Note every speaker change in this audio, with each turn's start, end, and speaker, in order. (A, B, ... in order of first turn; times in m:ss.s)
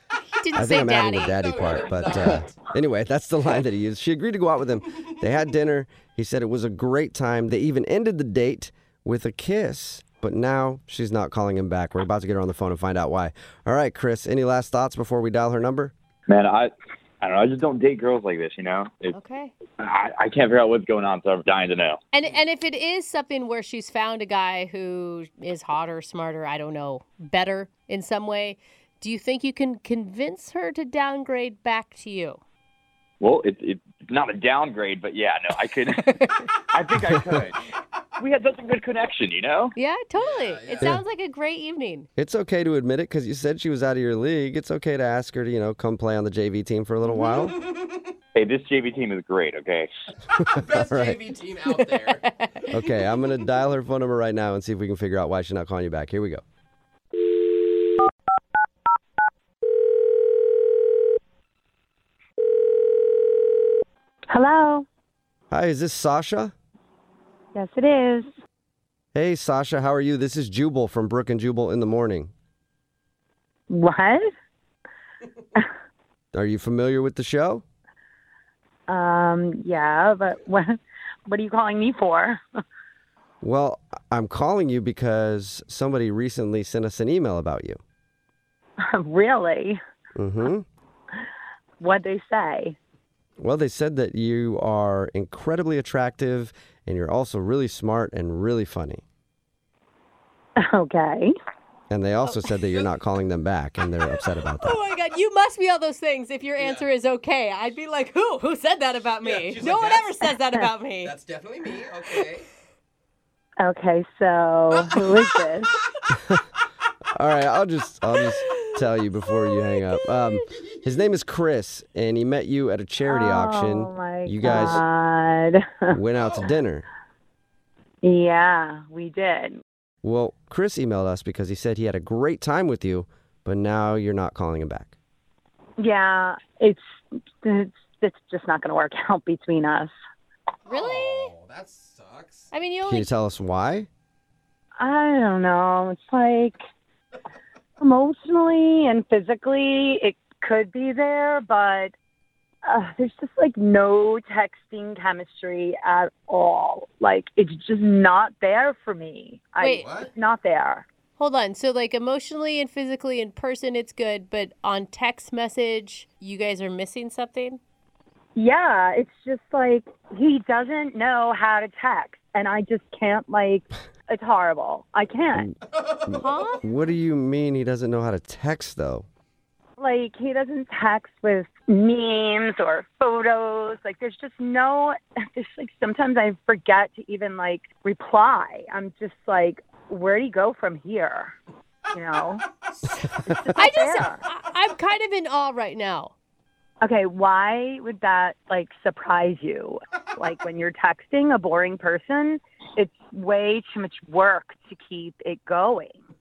0:00.2-0:01.4 A
0:00.5-0:15.9 B
0:01.4-0:02.6 C
0:16.3-0:19.1 D
0:19.1-0:19.5 A
0:19.8-0:22.0 D
0:22.1-0:32.4 A
0:33.2-0:36.2 D
0:36.7-0:37.6 D
0:38.2-0:39.7 D
0:39.8-0:42.1 A
0:40.1-0:41.0 C
0:42.2-0:47.6 B
0:47.2-0:48.0 C
0:48.3-0:49.9 D
0:50.4-0:51.2 B
0:50.5-0:52.2 C
0:52.7-0:56.4 B
1:04.3-1:04.8 E
1:05.5-1:06.5 B
1:07.5-1:08.3 E
1:09.1-1:12.3 B
1:13.7-1:14.2 E
1:16.3-1:17.6 B
1:18.9-1:22.4 E
1:23.4-1:27.8 B
1:28.9-1:29.8 E
1:30.2-1:30.6 B
1:31.8-1:32.8 E
1:33.4-1:39.0 B
1:40.6-1:41.3 E
1:41.9-1:44.8 B
1:44.5-1:51.1 A
1:46.5-1:46.9 C
1:49.2-1:52.5 C
1:53.6-1:55.7 E
1:57.1-2:04.8 B
2:03.1-2:06.0 E
2:05.9-2:06.8 B
2:08.0-2:09.6 E
2:10.0-2:14.9 B
2:15.8-2:16.8 E
2:17.4-2:19.9 E
2:20.6-2:22.5 C
2:20.7-2:21.0 A
2:22.5-2:23.0 A
2:22.8-2:23.9 B
2:24.8-2:26.6 E
2:27.8-2:31.9 E
2:32.6-2:40.8 E
2:39.6-2:40.1 C
2:41.2-2:47.6 A
2:48.4-2:55.5 E
2:55.8-2:56.4 C
2:56.1-2:59.1 B
2:56.2-2:56.6 A
2:59.8-3:11.3 E
3:11.9-3:12.4 E
3:12.8-3:16.1 A
3:13.2-3:14.2 E
3:16.8-3:26.0 E